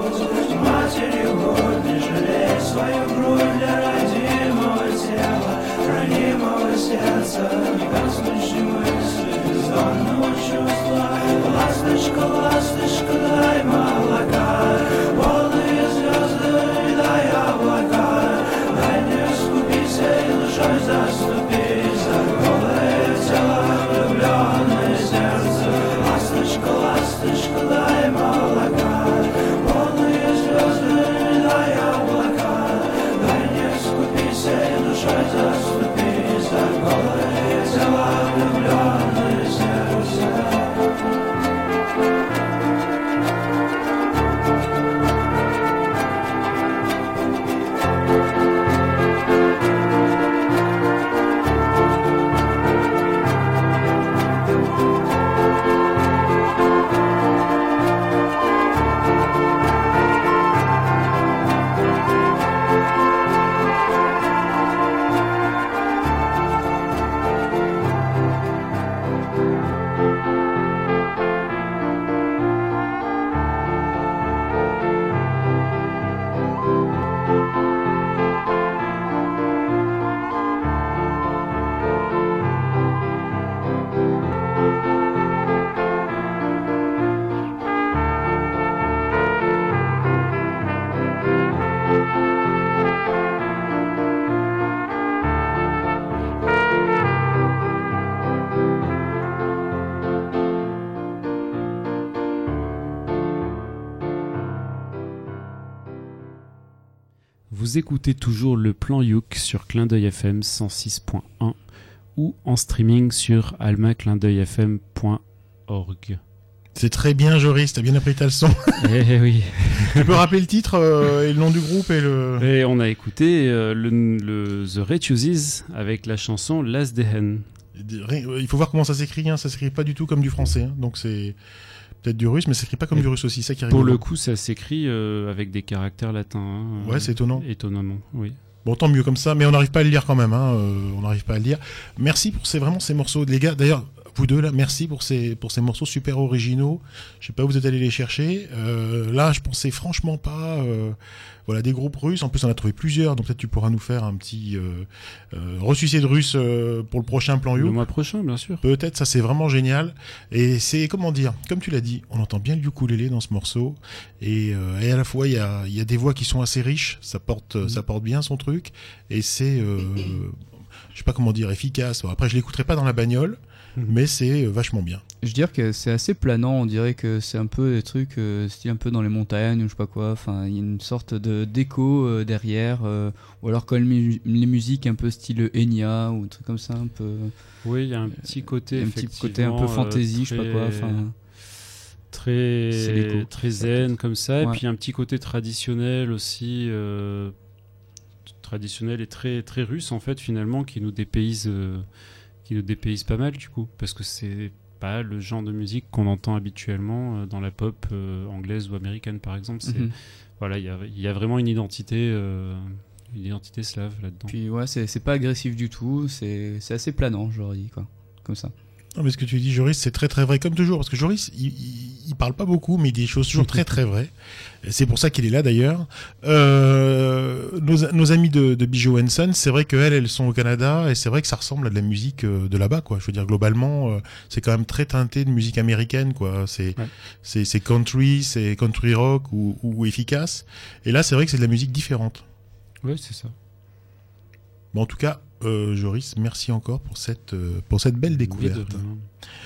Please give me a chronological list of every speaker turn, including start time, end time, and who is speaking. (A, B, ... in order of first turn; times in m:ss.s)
1:47.5-1:51.6 A
1:52.2-1:56.2 A
1:56.8-1:58.9 B
1:58.8-2:00.1 A
1:59.9-2:02.5 B
2:02.4-2:07.5 A
2:07.8-2:11.4 B
2:12.0-2:14.0 B
2:13.7-2:18.4 A
2:16.8-2:17.5 B
2:18.6-2:37.8 B
2:37.6-2:38.6 A
2:38.6-2:50.4 B
2:50.9-2:55.0 B
2:55.2-3:07.3 C
3:07.6-3:11.4 A
3:08.2-3:11.1 C
3:12.1-3:17.4 A
3:12.7-3:14.6 C
3:18.4-3:34.3 A
3:29.6-3:29.9 C
3:34.3-3:38.5 C
3:39.0-3:44.1 B
3:44.6-4:02.2 B
4:02.8-4:03.3 A
4:04.7-4:08.8 B
4:08.1-4:09.1 A